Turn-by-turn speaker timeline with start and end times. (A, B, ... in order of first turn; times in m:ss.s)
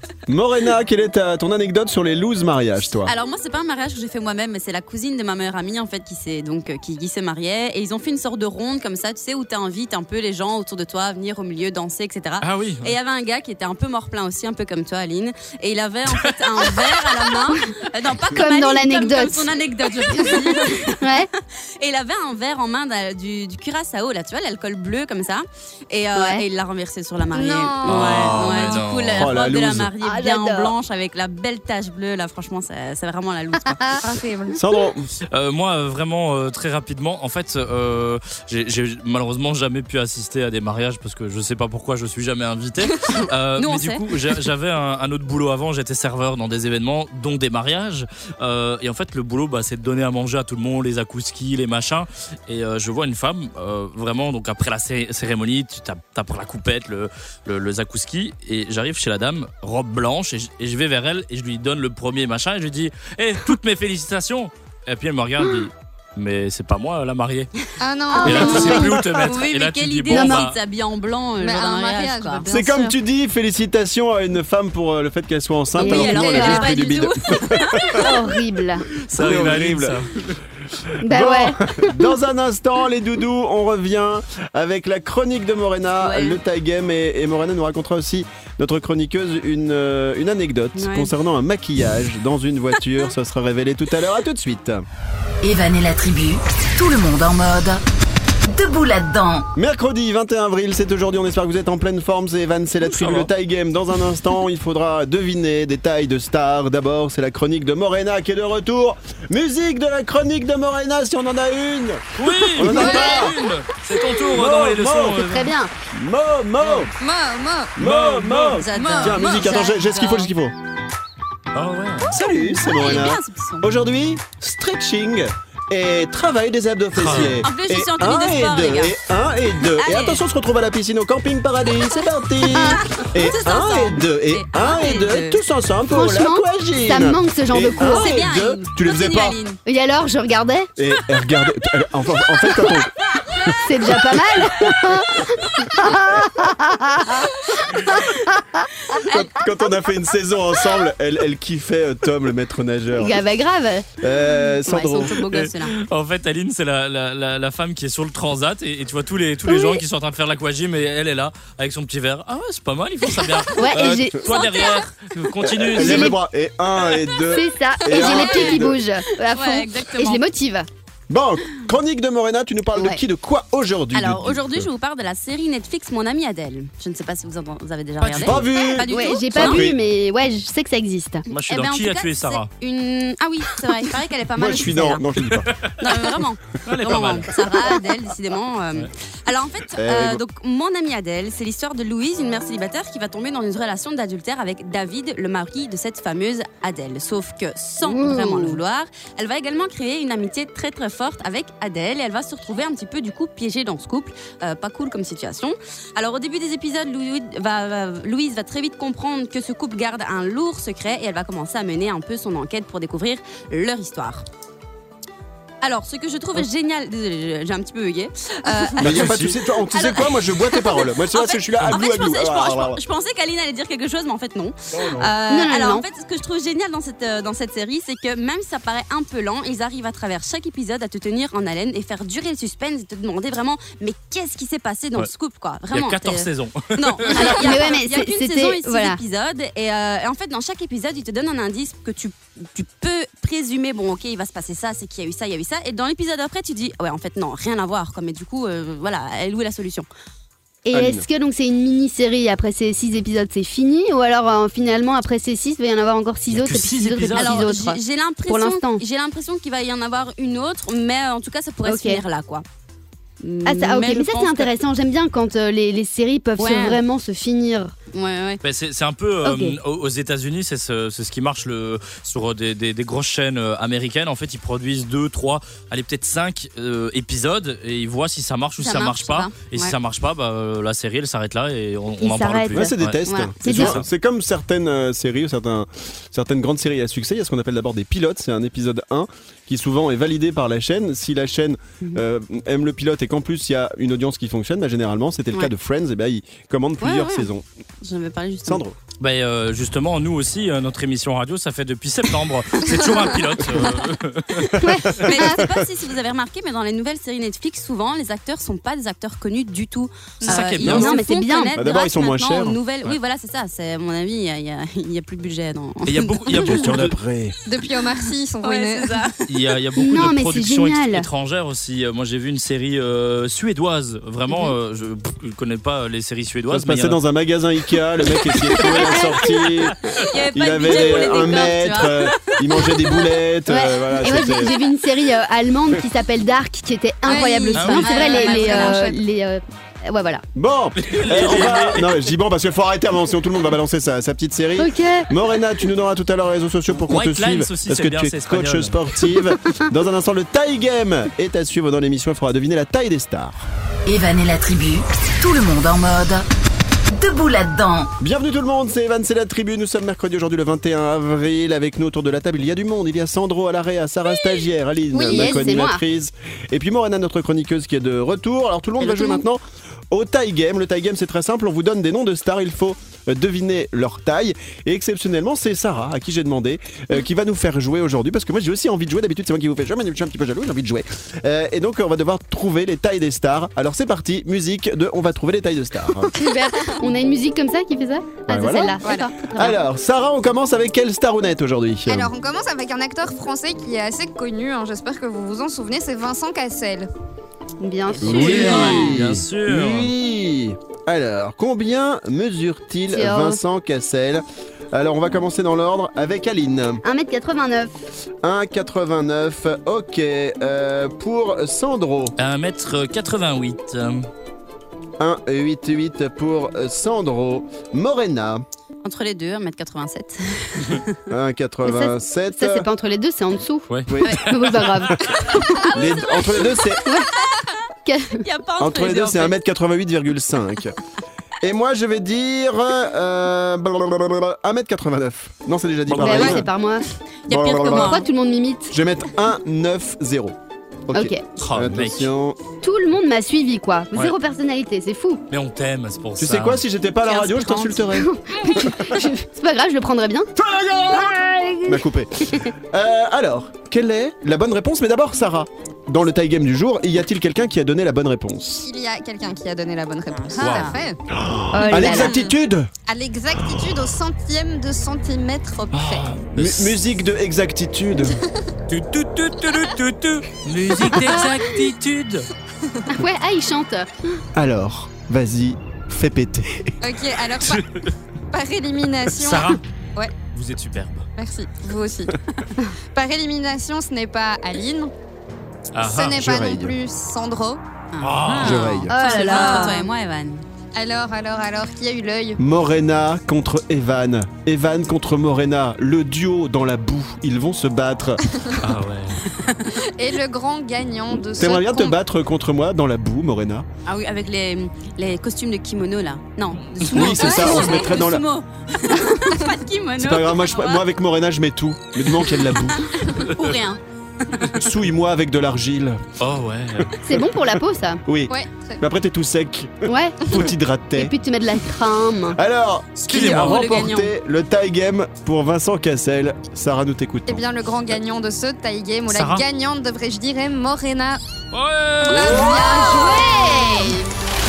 0:00.3-0:03.1 A
0:03.0-0:34.0 B
0:12.4-0:13.0 C
0:16.2-0:17.2 C
0:18.3-0:19.5 D
0:20.2-0:21.3 D
0:26.1-0:26.4 D
0:27.3-0:28.8 E
0:27.8-0:29.4 C
0:29.1-0:29.9 A
0:30.0-0:30.7 D
0:33.8-0:34.6 E
0:34.5-0:35.1 A
0:35.3-1:07.5 C
0:43.6-0:44.4 B
1:07.8-1:09.0 E
1:08.1-1:08.7 D
1:08.2-1:12.9 B
1:08.2-1:10.6 C
1:08.7-1:09.1 A
1:10.1-1:10.4 D
1:11.4-1:12.8 E
1:12.5-1:18.1 A
1:15.7-1:18.1 B
1:15.8-1:16.7 D
1:17.8-1:18.8 D
1:19.0-1:20.4 C
1:19.1-1:20.0 A
1:21.0-1:22.1 D
1:21.0-1:34.8 A
1:26.0-1:26.4 B
1:30.7-1:31.1 B
1:35.4-1:37.8 F
1:38.4-1:39.5 F
1:39.6-1:53.4 A
1:42.8-1:43.3 C
1:52.2-1:55.5 C
1:52.7-1:53.0 D
1:52.7-1:53.2 E
1:54.2-1:55.3 A
1:55.2-1:55.7 D
1:55.9-1:56.9 A
1:57.0-1:57.8 E
1:57.8-2:00.5 A
1:57.8-1:58.6 C
1:58.5-2:00.3 B
1:58.7-1:59.6 E
2:01.5-2:02.1 C
2:02.1-2:19.4 A
2:02.3-2:03.7 B
2:06.9-2:07.4 C
2:07.2-2:09.0 B
2:09.6-2:10.2 B
2:12.5-2:15.4 B
2:15.9-2:18.1 D
2:17.8-2:19.6 B
2:19.6-2:20.7 D
2:20.8-2:25.0 A
2:23.6-2:27.3 D
2:27.9-2:28.7 D
2:28.9-2:29.6 B
2:28.9-2:33.2 A
2:33.0-2:33.9 D
2:34.0-2:35.2 A
2:34.6-2:35.8 B
2:35.2-2:46.2 C
2:39.5-2:39.8 D
2:43.2-2:43.5 B
2:43.6-2:44.2 D
2:44.2-2:44.9 B
2:45.4-2:48.8 A
2:45.8-2:46.2 D
2:47.3-2:50.7 D
2:47.8-2:50.2 B
2:51.1-2:54.7 A
2:52.8-2:53.0 D
2:53.9-2:59.7 B
2:58.0-2:58.6 C
2:58.2-2:59.8 A
2:58.9-3:01.2 D
3:01.3-3:02.5 C
3:01.4-3:05.0 B
3:04.3-3:05.5 A
3:05.3-3:05.7 C
3:05.8-3:34.2 B
3:06.6-3:07.4 C
3:09.8-3:10.2 A
3:17.8-3:18.6 D
3:35.6-3:39.1 B
3:38.8-3:42.8 A
3:38.8-3:39.4 C
3:39.7-4:09.9 B
3:44.8-3:45.0 A
3:45.3-3:45.8 D
3:55.7-3:57.4 C
3:57.1-3:59.0 D
4:10.6-4:18.8 D
4:10.7-4:11.0 A
4:16.3-4:17.5 C
4:17.2-4:22.4 B
4:21.6-4:22.0 D
4:23.2-4:24.5 B
4:23.4-4:27.7 D
4:26.4-4:26.8 B
4:27.9-4:28.4 B
4:28.4-4:43.8 C
4:29.2-4:29.6 D
4:38.6-4:39.8 B
4:42.0-4:43.7 D
4:42.5-4:57.4 A
4:43.0-4:43.6 B
4:56.8-4:57.3 B
4:57.8-4:58.6 B
4:58.4-4:58.8 A
4:59.0-5:04.5 C
5:03.5-5:16.7 B
5:04.6-5:05.0 D
5:04.6-5:05.6 A
5:10.2-5:11.0 C
5:10.6-5:11.5 D
5:11.5-5:12.6 A
5:15.8-5:17.0 C
5:16.4-5:17.4 A
5:17.4-5:19.0 E
5:18.4-5:19.3 B
5:19.3-5:27.0 C
5:19.8-5:21.1 D
5:24.3-5:24.5 B
5:26.5-5:34.5 A
5:28.2-5:30.1 C
5:28.6-5:33.1 B
5:33.5-5:40.2 D
5:34.2-5:34.7 B
5:37.0-5:38.9 B
5:37.0-5:39.0 E
5:37.6-5:37.9 C
5:40.3-5:53.4 A
5:40.8-5:42.1 C
5:44.6-5:45.1 D
5:46.8-5:48.8 C
5:53.8-5:56.3 F
5:56.9-5:57.9 F
5:58.0-6:26.1 A
6:04.9-6:05.8 D
6:08.8-6:09.2 B
6:26.1-6:29.6 D
6:28.3-6:28.8 A
6:28.8-6:29.1 E
6:29.3-6:32.1 A
6:31.9-6:36.9 E
6:37.6-6:38.9 D
6:38.0-6:39.9 C
6:38.0-6:46.8 A
6:42.9-6:43.4 D
6:46.8-6:47.7 D
6:48.2-6:52.1 A
6:52.2-6:54.1 C
6:55.0-6:58.4 A
6:58.8-7:01.0 B
7:01.1-7:02.7 A
7:01.6-7:05.0 D
7:03.7-7:04.6 C
7:03.9-7:05.1 A
7:05.7-7:06.8 A
7:05.7-7:06.7 B
7:07.8-7:08.2 D
7:08.2-7:09.4 B
7:08.6-7:10.8 A
7:11.4-7:16.5 A
7:15.9-7:16.4 C
7:16.0-7:16.8 D
7:17.3-7:18.1 B
7:17.3-7:18.0 A
7:17.6-7:18.7 D
7:18.7-7:20.4 A
7:20.9-7:22.4 A
7:20.9-7:21.2 D
7:21.4-7:22.1 C
7:22.6-7:25.2 D
7:25.3-7:26.6 C
7:26.2-7:28.8 A
7:27.0-7:27.9 B
7:27.9-7:30.3 D
7:30.4-7:38.6 A
7:30.9-7:32.5 D
7:38.6-7:41.0 E
7:40.1-7:40.8 B
7:40.4-7:40.7 C
7:41.1-7:42.7 A
7:41.5-7:42.3 D
7:41.7-7:42.3 E
7:42.9-7:46.2 E
7:43.4-7:43.7 A
7:45.8-7:46.8 C
7:45.9-7:48.2 A
7:48.7-7:52.3 C
7:52.9-7:53.9 D
7:54.3-7:56.7 A
7:56.8-7:57.6 E
7:57.4-7:57.9 C
7:58.3-8:00.1 E
7:59.1-7:59.6 C
8:00.3-8:01.1 C
8:01.2-8:02.1 E
8:02.9-8:04.9 E
8:05.7-8:06.2 C
8:05.8-8:07.6 E
8:06.0-8:06.8 A
8:07.9-8:10.4 B
8:08.0-8:08.8 C
8:08.4-8:09.0 A
8:08.6-8:09.8 E
8:08.9-8:09.8 D
8:10.7-8:12.4 E
8:12.4-8:18.2 A
8:18.6-8:19.2 C
8:19.2-8:19.8 B
8:19.8-8:22.0 E
8:21.3-8:23.6 A
8:23.8-8:30.8 B
8:26.6-8:27.1 C
8:26.9-8:28.2 A
8:27.0-8:27.9 E
8:30.0-8:32.8 A
8:32.3-8:32.7 C
8:32.7-8:34.6 B
8:33.2-8:33.5 C
8:34.5-8:36.0 A
8:36.2-8:36.9 C
8:36.8-8:37.4 A
8:37.0-8:38.0 D
8:38.0-8:41.1 A
8:38.3-8:38.8 E
8:39.8-8:40.2 D
8:41.0-8:42.4 D
8:42.3-8:47.4 A
8:43.0-8:43.9 C
8:43.1-8:44.1 B
8:47.3-8:51.2 E
8:49.1-8:49.4 C
8:51.5-8:52.6 C
8:52.0-8:53.9 E
8:52.1-8:53.2 A
8:52.3-8:54.1 D